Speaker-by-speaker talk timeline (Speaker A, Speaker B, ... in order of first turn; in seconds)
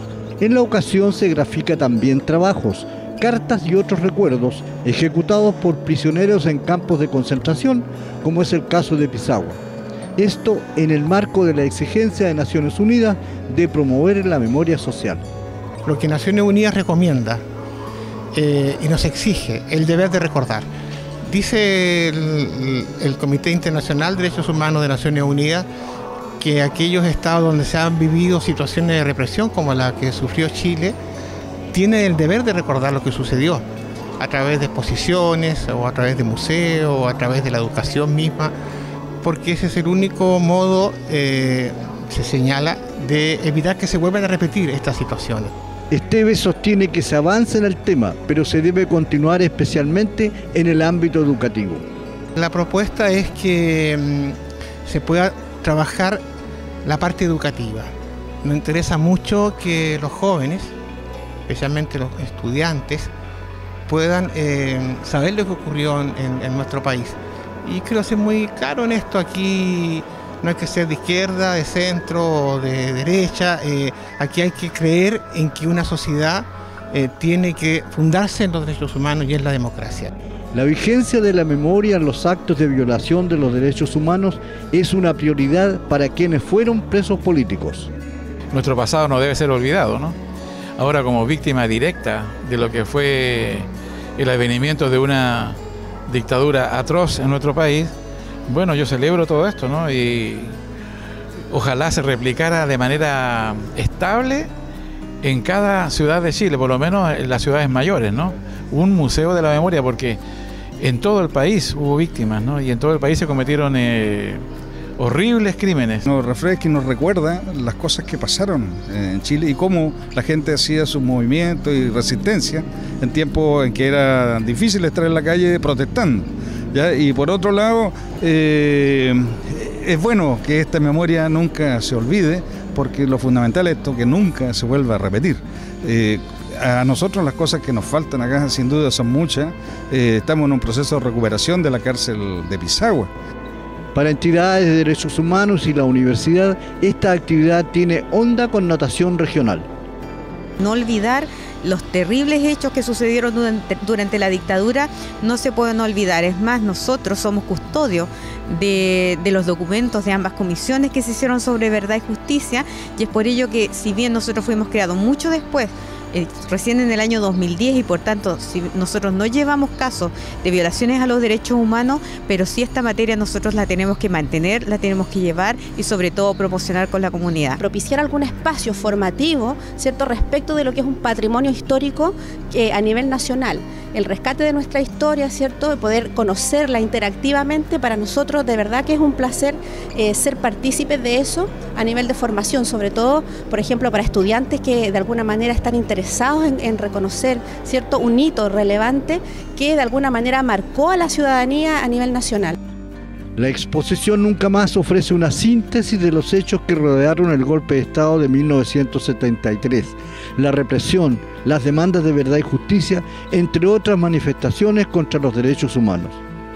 Speaker A: 0.4-9.6, 10.2-15.2, 45.9-51.8, 80.5-87.9, 143.9-149.7, 203.4-216.2
Speaker B: 15.8-17.4, 18.3-20.7, 21.2-25.7, 26.4-31.0, 31.7-33.6, 34.2-38.5, 39.2-45.5, 52.4-56.2, 56.8-57.9, 58.4-60.7, 61.5-63.1, 63.9-80.1
Speaker C: 88.5-90.2, 90.8-97.9, 98.5-100.5, 101.5-104.5, 105.2-110.2, 110.8-114.4, 115.0-116.0
Speaker D: 116.0-143.1
Speaker E: 150.6-177.6
Speaker F: 177.6-202.6